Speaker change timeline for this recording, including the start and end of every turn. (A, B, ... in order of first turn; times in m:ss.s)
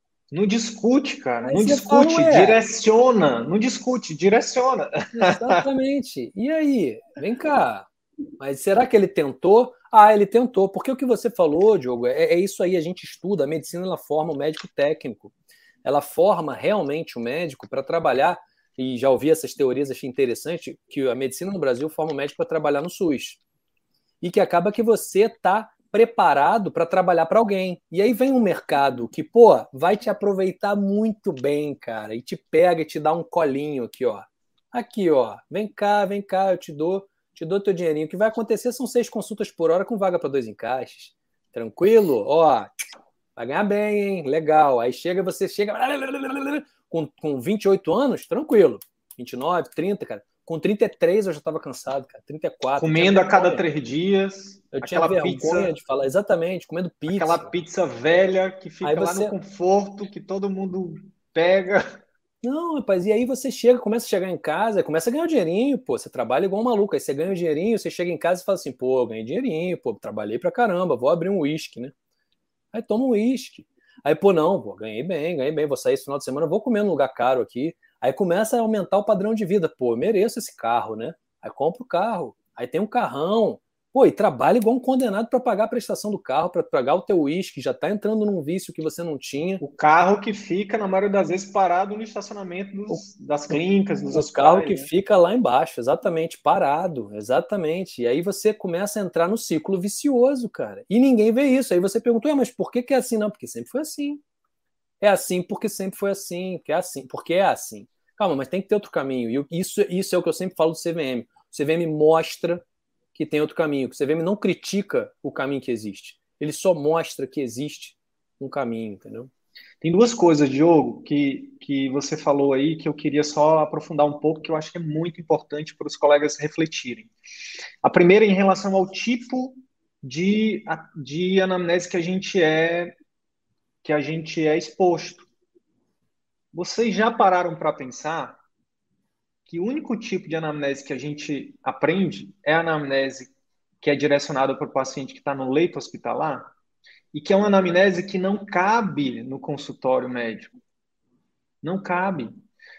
0:00.3-0:05.6 A
0:01.5-0:02.6 B
0:05.2-0:07.9 B
0:08.4-0:15.3 B
0:15.8-0:23.4 B
0:24.2-0:42.7 B
0:43.4-0:53.6 B
0:52.8-0:55.7 A
0:54.7-0:57.5 B
0:57.1-1:01.8 A
0:58.8-0:59.4 B
1:02.4-1:11.9 B
1:12.7-1:29.6 B
1:29.6-1:34.9 A
1:32.9-1:33.6 B
1:34.1-1:44.2 B
1:45.0-1:52.6 B
1:53.2-1:59.3 B
1:59.8-2:07.1 A
2:07.8-2:13.0 A
2:13.8-2:15.3 A
2:16.5-2:18.4 A
2:19.5-2:26.5 A
2:27.1-2:30.5 A
2:31.6-2:32.3 A